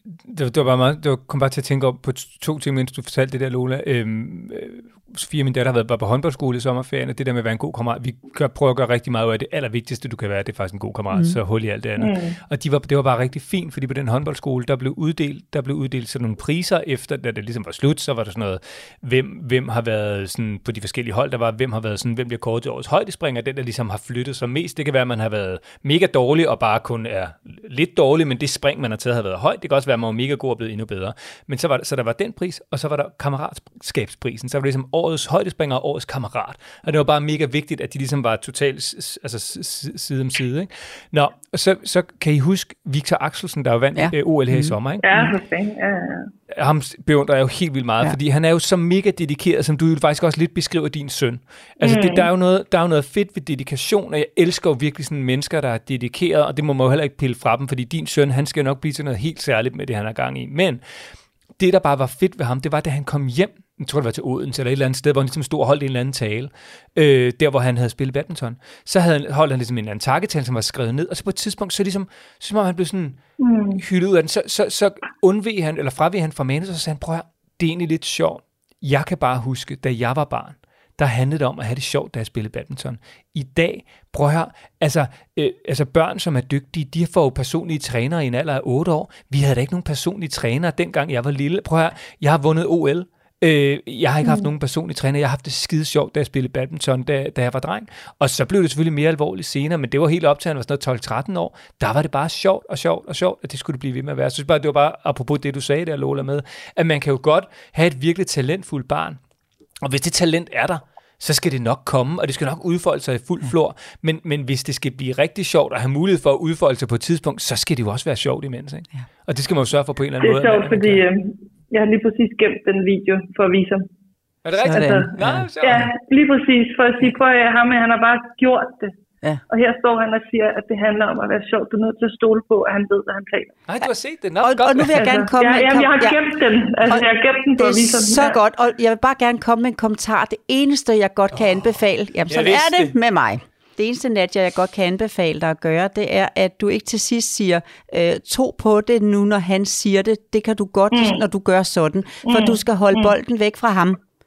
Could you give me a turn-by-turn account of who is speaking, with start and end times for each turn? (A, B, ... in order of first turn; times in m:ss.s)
0:00.2-0:45.0 A
0:12.0-0:12.4 B
0:43.9-0:45.3 C
0:45.0-0:46.3 B
0:46.5-1:00.8 A
0:51.8-0:52.3 B
1:01.6-1:13.2 A
1:13.4-1:13.8 B
1:13.7-1:49.2 A
1:49.8-2:01.0 A
2:00.2-2:03.9 B
2:04.4-2:05.9 A
2:04.6-2:05.4 C
2:04.6-2:08.9 B
2:09.5-2:13.6 B
2:13.7-2:15.0 A
2:14.4-2:16.2 C
2:15.0-2:18.4 B
2:16.8-2:34.0 C
2:22.2-2:22.9 A
2:30.9-2:31.2 B
2:32.2-2:33.1 B